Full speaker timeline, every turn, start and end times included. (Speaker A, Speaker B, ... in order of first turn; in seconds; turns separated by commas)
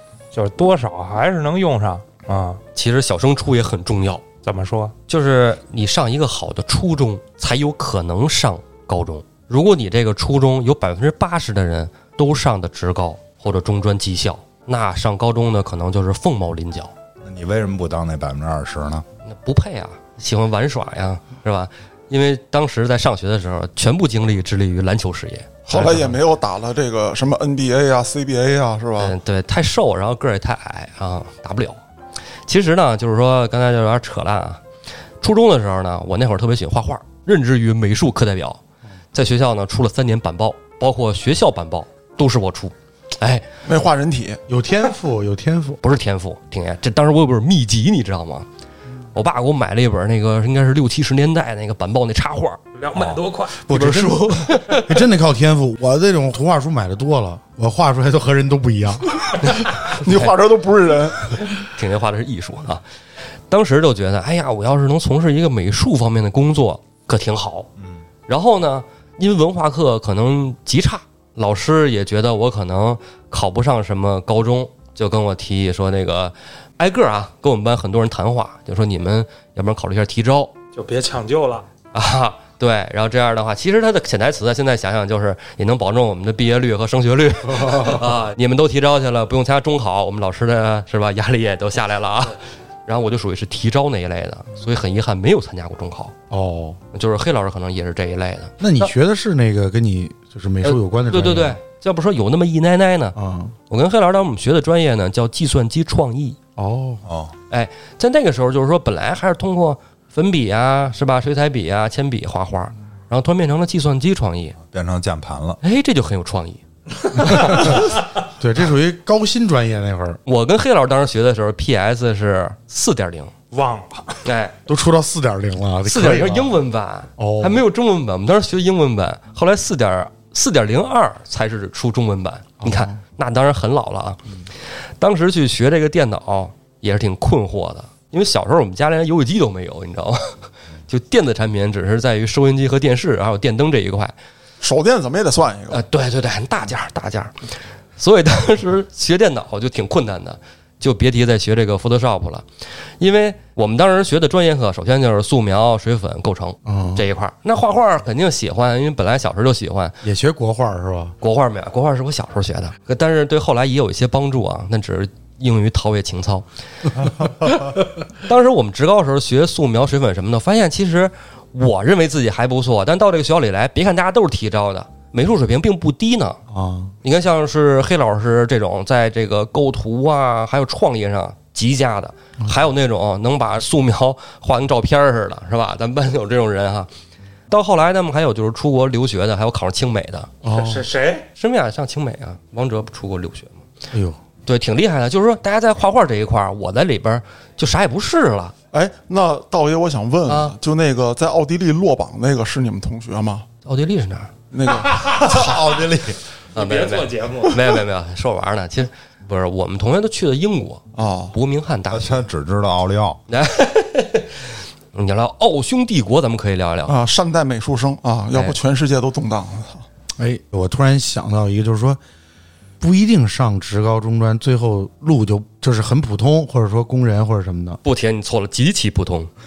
Speaker A: 0.3-2.6, Speaker B: 2.8-4.2, Speaker A: 4.4-5.0, Speaker B: 5.1-16.9, Speaker C: 17.2-19.1, Speaker B: 19.3-26.2, Speaker D: 25.7-29.2, Speaker B: 29.0-31.8, Speaker B: 32.5-34.6, Speaker B: 35.2-38.6, Speaker B: 39.1-43.5, Speaker D: 43.6-44.4, Speaker E: 44.5-45.8, Speaker B: 45.8-48.5, Speaker B: 49.1-54.8, Speaker A: 52.8-53.6, Speaker E: 53.7-59.2, Speaker B: 59.4-60.3, Speaker D: 59.7-61.5, Speaker B: 61.8-62.8, Speaker B: 63.5-67.7, Speaker B: 68.3-80.5, Speaker A: 80.7-81.7, Speaker B: 81.9-96.2, Speaker E: 96.3-96.8, Speaker B: 96.9-98.9, Speaker E: 98.6-101.6, Speaker B: 100.6-103.2, Speaker E: 103.2-103.5, Speaker B: 103.7-106.4, Speaker E: 106.6-107.0, Speaker C: 107.0-107.3, Speaker B: 107.5-114.6, Speaker C: 114.7-115.6, Speaker B: 115.6-116.6, Speaker B: 117.2-117.7, Speaker E: 117.3-117.8, Speaker E: 118.4-120.2, Speaker B: 120.3-123.3, Speaker A: 123.5-124.2, Speaker B: 124.2-124.6, Speaker E: 124.7-126.6, Speaker B: 125.9-134.2, Speaker E: 127.2-127.6, Speaker E: 132.6-133.0, Speaker B: 135.0-144.1, Speaker D: 144.6-145.8, Speaker B: 145.7-152.5, Speaker B: 153.0-160.0, Speaker E: 156.7-157.1, Speaker E: 160.0-161.2, Speaker B: 161.2-176.4, Speaker E: 176.5-176.9, Speaker B: 177.0-186.9, Speaker B: 187.5-190.3, Speaker E: 190.4-190.8, Speaker A: 190.5-191.3, Speaker B: 191.3-193.6, Speaker E: 193.9-194.2, Speaker B: 194.5-198.5, Speaker D: 198.7-203.5, Speaker B: 200.3-200.6, Speaker B: 203.7-204.3, Speaker D: 204.5-205.9, Speaker C: 205.2-206.2, Speaker B: 206.5-210.8, Speaker A: 206.6-207.7, Speaker D: 211.0-211.4, Speaker B: 211.3-212.2, Speaker C: 211.9-213.2, Speaker B: 213.3-217.0, Speaker D: 216.9-219.8, Speaker E: 220.2-222.0, Speaker E: 222.8-227.8, Speaker B: 227.8-229.3